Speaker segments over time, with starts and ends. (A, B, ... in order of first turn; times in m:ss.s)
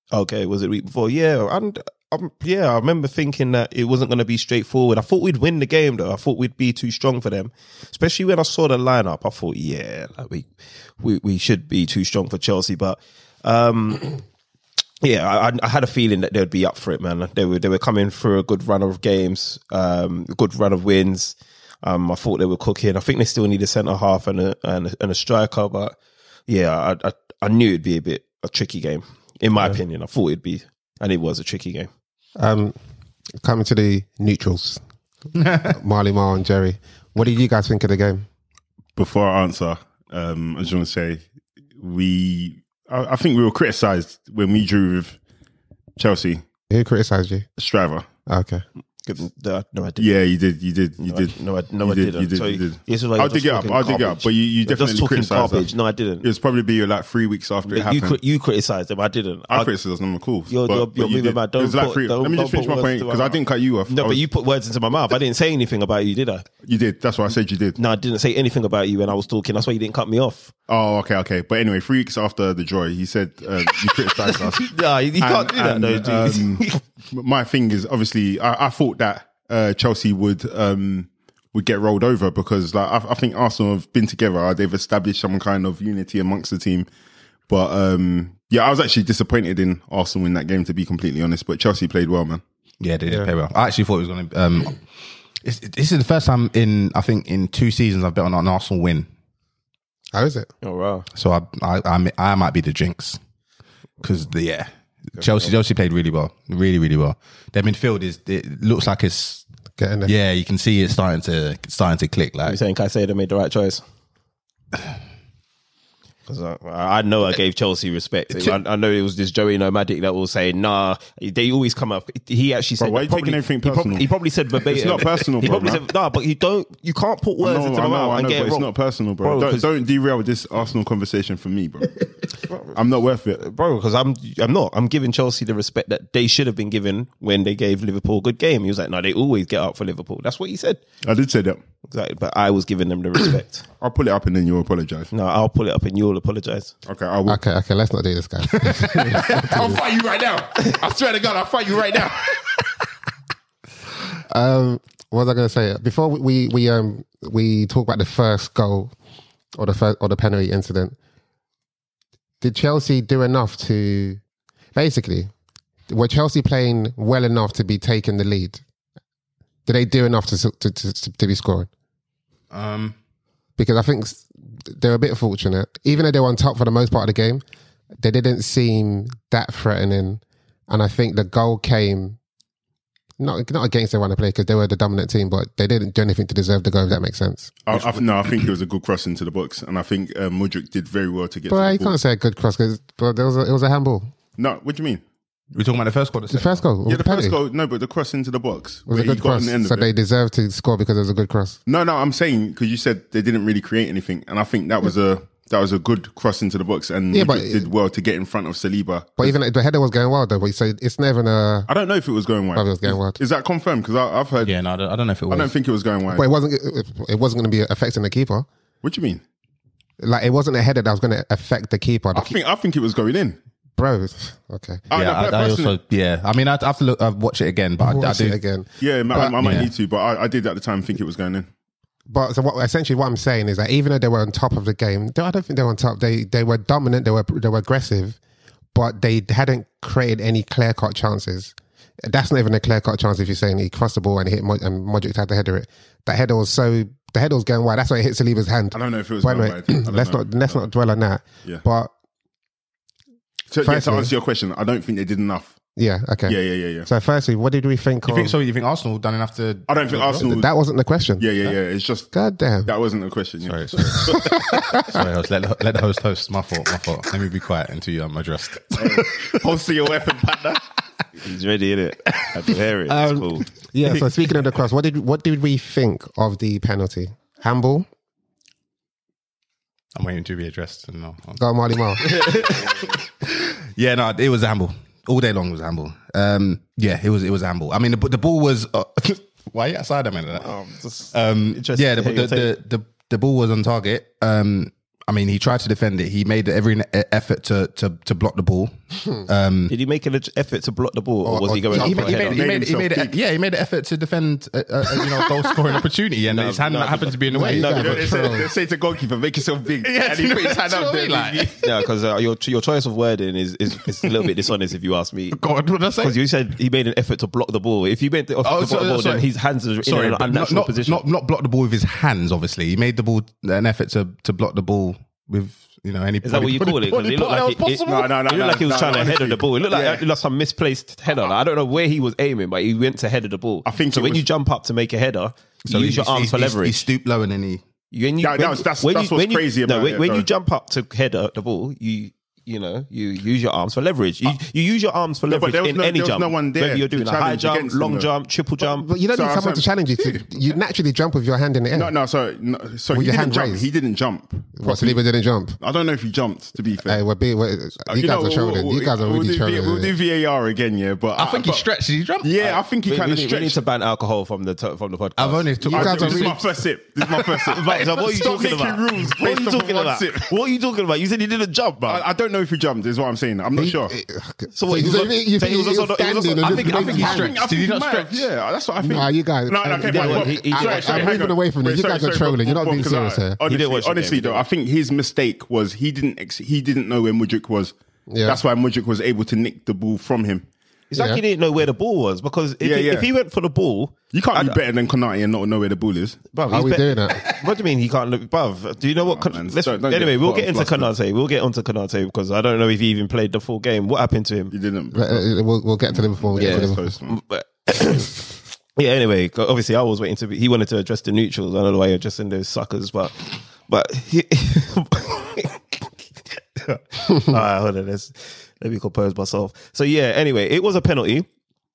0:00.1-0:10.5 A
0:11.0-0:14.2 A
0:15.0-0:26.0 A
0:26.5-0:31.9 A
0:32.4-0:32.8 B
0:33.4-0:34.8 B
0:35.4-0:38.2 B
0:39.0-0:41.2 C
0:41.8-0:45.2 C
0:46.0-0:46.4 C
0:46.7-0:47.4 B
0:47.6-0:48.0 C
0:48.3-0:48.6 B
0:49.0-0:50.1 A
0:50.0-0:55.7 C
0:51.0-0:56.3 A
0:56.2-0:58.2 C
0:57.7-0:59.7 A
0:59.5-1:04.2 C
1:00.5-1:06.4 A
1:06.6-1:07.8 C
1:07.8-1:10.5 A
1:10.7-1:26.9 C
1:14.2-1:16.8 A
1:27.5-1:32.4 C
1:32.8-1:34.8 D
1:35.4-1:39.1 D
1:40.1-1:40.5 B
1:40.6-1:41.0 A
1:41.1-1:43.2 D
1:44.0-1:49.4 D
1:45.2-1:45.5 A
1:49.8-1:50.1 B
1:50.0-1:52.6 D
1:52.4-1:53.8 A
1:56.3-2:08.7 A
2:02.8-2:05.8 C
2:07.4-2:12.0 C
2:09.2-2:09.7 A
2:12.5-2:12.8 A
2:12.7-2:13.4 C
2:13.4-2:20.8 A
2:21.0-2:21.6 C
2:21.9-2:23.6 A
2:23.8-2:25.1 C
2:25.1-2:26.7 A
2:26.8-2:27.4 C
2:27.3-2:29.8 B
2:28.5-2:32.6 D
2:34.3-2:38.9 B
2:39.6-2:41.0 B
2:42.4-2:44.2 B
2:44.7-2:45.3 B
2:45.9-2:48.6 B
2:49.6-2:51.7 B
2:52.5-2:53.0 D
2:53.6-2:57.4 B
2:58.0-3:02.2 B
3:03.2-3:07.8 B
3:07.6-3:12.0 C
3:11.5-3:14.1 B
3:14.4-3:15.0 C
3:15.5-3:16.6 D
3:16.3-3:17.4 B
3:16.9-3:19.9 C
3:18.9-3:21.6 B
3:21.7-3:29.4 C
3:27.1-3:27.7 B
3:29.2-3:31.7 B
3:31.7-3:34.5 C
3:32.6-3:33.2 B
3:34.4-3:35.5 D
3:35.3-3:36.3 C
3:36.1-3:38.5 B
3:38.8-3:39.2 C
3:40.0-3:42.4 B
3:42.1-3:43.4 C
3:43.8-3:44.8 B
3:44.9-3:45.8 C
3:44.9-3:48.4 D
3:47.8-3:49.7 B
3:48.8-3:51.5 C
3:49.4-3:49.7 D
3:52.1-3:58.2 B
3:58.7-4:11.9 B
4:08.7-4:10.6 C
4:13.5-4:15.6 C
4:13.6-4:14.1 B
4:15.8-4:18.3 B
4:16.2-4:16.9 C
4:18.0-4:20.3 D
4:19.7-4:20.5 C
4:20.1-4:21.3 B
4:21.2-4:22.1 C
4:22.1-4:22.7 B
4:22.6-4:24.4 C
4:23.5-4:29.3 D
4:23.8-4:25.0 B
4:28.7-4:30.6 C
4:31.2-4:33.5 A
4:32.9-4:37.9 B
4:39.9-4:41.4 D
4:41.4-4:42.4 B
4:42.0-4:50.5 D
4:42.2-4:42.8 A
4:50.3-4:52.5 A
4:51.1-4:59.7 D
4:59.7-5:02.4 A
5:01.2-5:02.3 B
5:01.7-5:08.4 D
5:02.3-5:03.2 C
5:06.3-5:07.6 A
5:07.3-5:08.5 B
5:07.4-5:11.3 C
5:09.8-5:11.7 D
5:11.0-5:15.4 A
5:15.3-5:16.2 D
5:16.0-5:21.0 A
5:18.4-5:19.3 D
5:19.8-5:27.9 D
5:26.2-5:36.8 A
5:27.8-5:30.0 C
5:33.6-5:34.2 C
5:35.6-5:37.6 D
5:37.9-5:48.9 A
5:38.2-5:40.3 C
5:45.3-5:48.1 C
5:48.8-5:51.9 B
5:49.1-5:50.3 C
5:51.7-5:55.0 C
5:52.9-5:53.7 B
5:54.6-5:55.6 B
5:55.6-5:57.0 C
5:56.8-5:59.9 B
5:57.9-6:01.6 C
6:01.2-6:02.3 D
6:02.2-6:03.6 C
6:02.4-6:05.5 A
6:05.2-6:07.5 D
6:05.6-6:06.4 B
6:05.6-6:10.3 C
6:07.4-6:12.0 A
6:11.9-6:14.0 C
6:13.6-6:17.3 B
6:14.5-6:17.2 A
6:16.4-6:18.3 D
6:16.8-6:30.5 C
6:18.8-6:23.4 B
6:19.8-6:21.2 A
6:23.4-6:24.4 A
6:28.1-6:28.4 B
6:30.9-6:34.6 A
6:30.9-6:31.2 B
6:32.6-6:33.1 C
6:34.1-6:36.2 C
6:36.3-6:44.5 A
6:36.5-6:37.3 B
6:39.0-6:40.9 C
6:44.5-6:45.3 C
6:44.9-6:46.9 B
6:45.9-6:47.2 C
6:46.4-7:01.3 A